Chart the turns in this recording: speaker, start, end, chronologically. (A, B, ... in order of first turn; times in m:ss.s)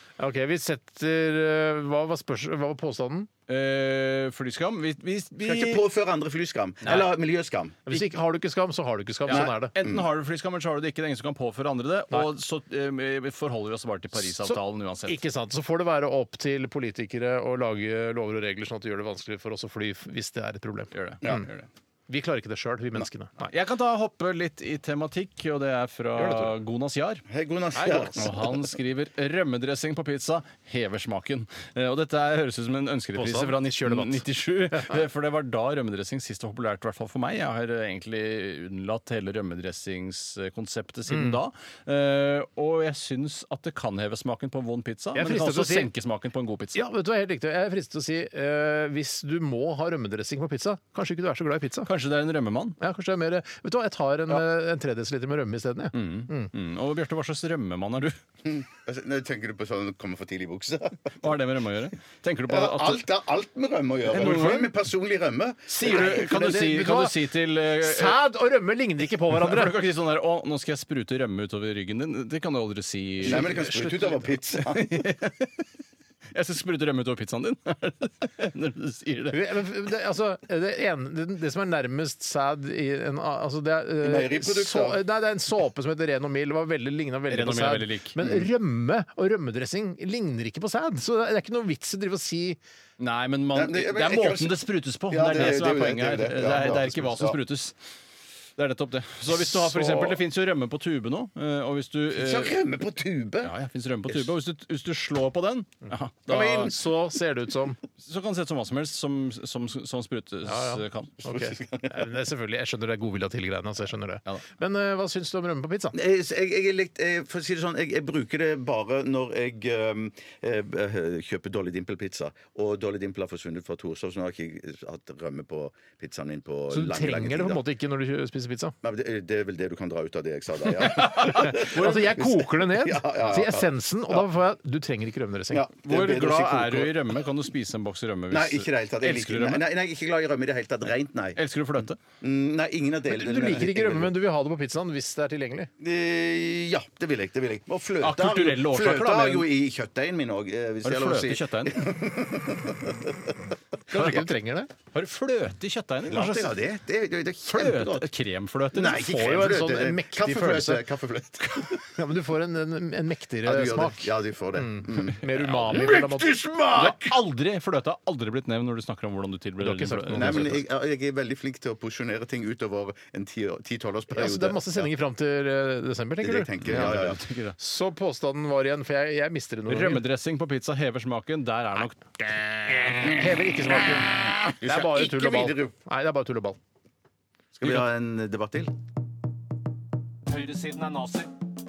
0:00.2-0:03.3 A
0:03.5-0:05.8 B
0:05.4-0:07.9 C
0:07.8-0:09.7 A
0:09.2-0:15.2 B
0:09.3-0:10.0 C
0:14.3-0:21.4 A
0:20.9-0:21.7 B
0:22.1-0:23.5 A
0:23.4-0:27.2 B
0:26.1-0:26.5 A
0:27.3-0:28.5 C
0:27.7-0:46.8 B
0:33.1-0:34.2 A
0:41.1-0:41.4 A
0:45.1-0:45.9 A
0:46.7-0:51.9 A
0:51.8-0:52.8 B
0:52.8-0:56.5 A
0:55.9-0:58.2 B
0:58.4-1:01.2 C
1:01.2-1:03.0 B
1:02.5-1:06.1 C
1:04.1-1:04.7 B
1:04.2-1:04.6 A
1:05.7-1:08.2 B
1:05.8-1:09.8 A
1:09.3-1:14.0 B
1:13.2-1:14.2 A
1:13.2-1:14.9 C
1:14.5-1:15.6 B
1:16.3-1:19.4 B
1:19.3-1:32.6 A
1:24.0-1:25.0 C
1:27.3-1:28.2 B
1:33.0-1:37.7 B
1:33.5-1:37.4 C
1:38.6-1:42.6 B
1:39.5-1:40.1 A
1:42.1-1:43.5 C
1:43.4-1:46.7 B
1:46.3-1:46.8 C
1:46.3-1:47.8 A
1:48.0-1:51.2 B
1:50.4-1:56.0 A
1:51.2-1:52.0 C
1:55.9-2:07.6 C
2:06.7-2:08.7 A
2:08.8-2:14.2 C
2:10.8-2:12.0 B
2:11.0-2:15.7 A
2:15.5-2:17.1 C
2:15.8-2:19.6 B
2:18.3-2:21.4 C
2:21.4-2:22.0 B
2:22.2-2:24.1 C
2:23.1-2:25.7 A
2:25.8-2:33.4 C
2:28.0-2:29.4 B
2:30.8-2:31.8 B
2:33.9-2:34.7 A
2:33.9-2:34.2 B
2:34.9-2:36.5 B
2:36.1-2:38.1 C
2:37.5-2:39.0 B
2:38.7-2:41.9 C
2:38.9-2:40.8 A
2:41.8-2:46.3 A
2:43.4-2:47.2 C
2:45.4-2:46.0 B
2:46.7-2:50.6 B
2:49.6-2:50.6 A
2:50.1-2:54.9 C
2:54.1-2:57.0 A
2:56.2-2:57.2 C
2:56.6-2:57.6 B
2:57.6-3:00.0 A
2:59.7-3:03.0 B
3:02.9-3:06.6 A
3:04.2-3:05.7 C
3:07.5-3:08.7 C
3:10.3-3:11.3 B